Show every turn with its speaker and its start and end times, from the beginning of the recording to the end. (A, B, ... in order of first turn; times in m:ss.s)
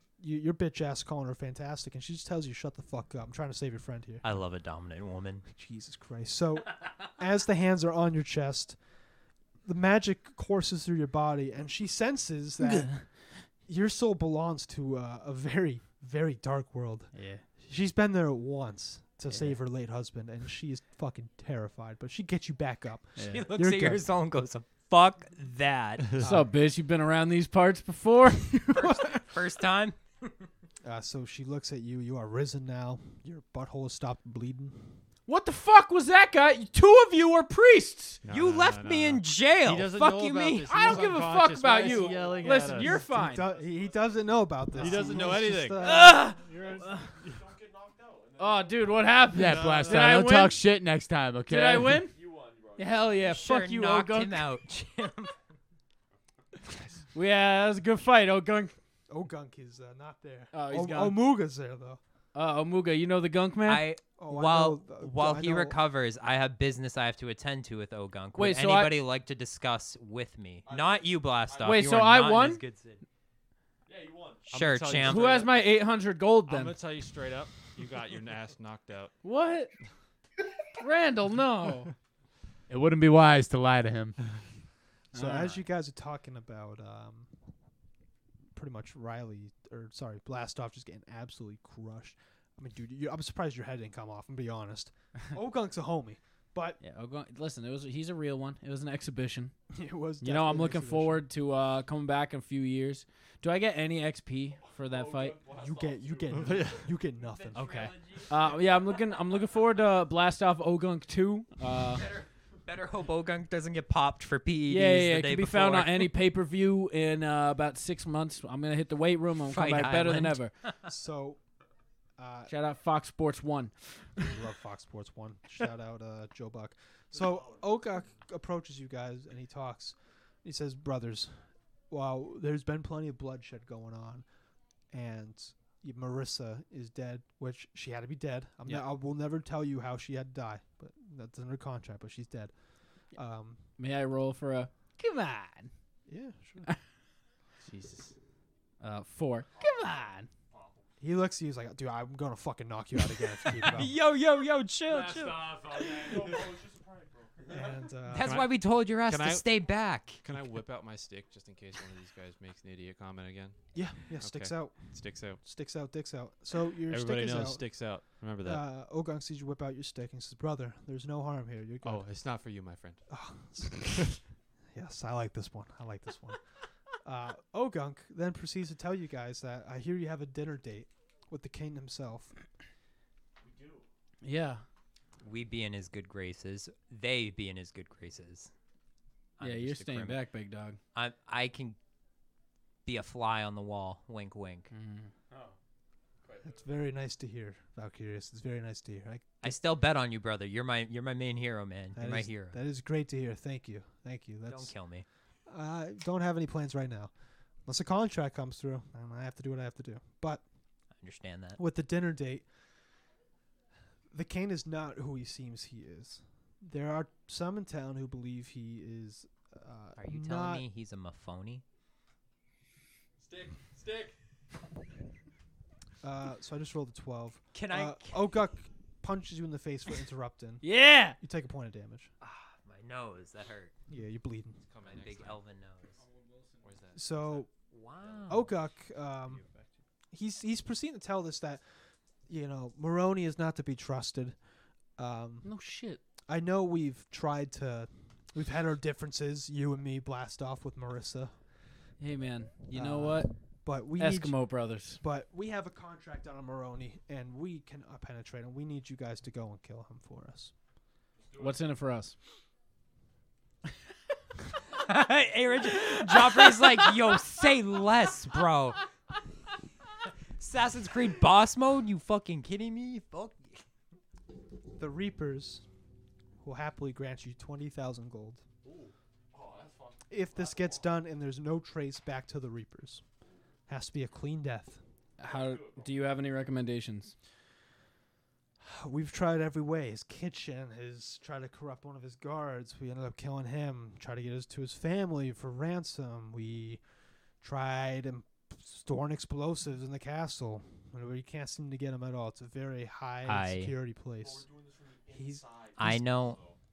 0:00.2-0:04.2 A
0:04.2-0:05.5 B
0:05.5-0:08.8 A
0:09.6-0:13.1 A
0:12.6-0:13.0 C
0:13.6-0:24.1 A
0:17.1-0:17.4 C
0:19.3-0:19.6 C
0:23.2-0:23.5 C
0:23.3-0:26.2 B
0:26.2-0:29.2 C
0:26.2-0:26.5 A
0:28.7-0:30.3 B
0:30.8-0:35.0 A
0:35.3-0:38.2 C
0:38.2-0:43.1 D
0:38.3-0:40.9 B
0:40.6-0:43.5 C
0:41.8-0:45.0 E
0:42.8-0:46.3 A
0:44.8-0:47.3 D
0:44.9-0:47.1 C
0:45.8-0:46.2 B
0:46.5-0:50.0 E
0:48.4-0:50.7 C
0:49.3-0:52.1 F
0:49.6-0:49.9 D
0:51.5-0:52.2 C
0:52.1-0:53.3 E
0:52.8-0:54.5 C
0:53.2-0:55.4 B
0:57.1-0:58.8 C
0:59.1-1:02.0 A
1:00.5-1:01.2 C
1:02.3-1:03.9 C
1:03.6-1:13.0 B
1:04.2-1:05.8 A
1:08.4-1:09.0 C
1:10.6-1:12.0 E
1:11.6-1:12.6 C
1:13.9-1:14.5 E
1:14.5-1:15.5 B
1:14.5-1:15.5 D
1:15.0-1:16.8 C
1:16.5-1:19.2 D
1:19.2-1:19.7 C
1:20.8-1:21.9 C
1:22.7-1:24.2 F
1:25.1-1:25.6 C
1:25.1-1:27.3 A
1:28.6-1:36.8 A
1:36.8-1:39.5 C
1:39.7-1:41.3 A
1:40.2-1:45.4 C
1:44.6-1:47.0 E
1:45.5-1:47.7 A
1:46.3-1:46.8 D
1:47.5-1:48.3 B
1:47.5-1:52.1 C
1:51.9-1:56.1 B
1:54.7-2:00.5 C
1:59.4-2:00.9 B
2:00.9-2:01.4 A
2:02.2-2:02.5 A
2:02.5-2:03.8 C
2:04.3-2:14.2 A
2:07.1-2:08.1 E
2:14.9-2:22.5 A
2:23.1-2:23.6 A
2:23.8-2:25.7 C
2:26.1-2:26.7 A
2:27.6-2:28.1 D
2:28.8-2:30.3 C
2:30.5-2:30.8 E
2:31.0-2:34.0 A
2:33.6-2:36.1 B
2:35.2-2:37.9 E
2:37.5-2:38.4 A
2:38.1-2:40.2 B
2:38.2-2:45.4 D
2:43.7-2:52.1 A
2:46.9-2:48.7 D
2:51.8-2:53.0 D
2:53.1-2:54.1 A
2:54.7-2:56.4 A
2:57.0-3:02.3 A
3:03.4-3:03.9 E
3:04.2-3:04.6 C
3:05.2-3:08.5 B
3:09.4-3:10.3 B
3:09.4-3:10.8 C
3:10.9-3:11.8 B
3:12.9-3:14.7 B
3:14.7-3:15.1 C
3:16.3-3:16.6 E
3:16.4-3:19.6 A
3:19.4-3:22.6 B
3:22.0-3:24.8 A
3:24.5-3:25.1 B
3:25.5-3:27.1 A
3:27.7-3:30.4 A
3:31.0-3:31.6 B
3:31.6-3:32.5 A
3:34.1-3:40.6 A
3:40.0-3:41.6 B
3:43.3-3:43.9 E
3:46.0-3:52.1 A
3:47.5-3:48.3 B
3:50.6-3:51.2 C
3:52.2-3:53.7 B
3:53.9-3:54.6 A
3:54.6-3:55.4 D
3:54.8-3:56.0 B
3:56.0-3:56.7 C
3:56.6-3:57.4 D
3:56.9-3:57.5 A
3:57.5-3:58.5 B
3:58.3-3:59.4 A
4:00.1-4:01.8 A
4:02.3-4:04.4 A
4:05.0-4:05.5 A
4:05.4-4:06.0 C
4:06.3-4:11.4 A
4:12.0-4:13.3 C
4:12.7-4:14.4 A
4:14.0-4:15.0 C
4:15.0-4:20.5 A
4:21.2-4:21.6 E
4:21.4-4:22.2 C
4:24.8-4:28.8 B
4:25.7-4:27.2 C
4:30.4-4:33.6 B
4:34.8-4:35.6 A
4:36.4-4:38.4 A
4:38.6-4:40.9 E
4:40.1-4:43.0 A
4:43.7-4:44.8 A
4:45.2-4:47.1 C
4:45.2-4:46.0 E
4:48.6-4:56.8 A
4:57.4-5:04.5 A
5:03.3-5:03.8 B
5:04.1-5:06.6 E
5:05.1-5:06.0 A
5:05.8-5:06.4 B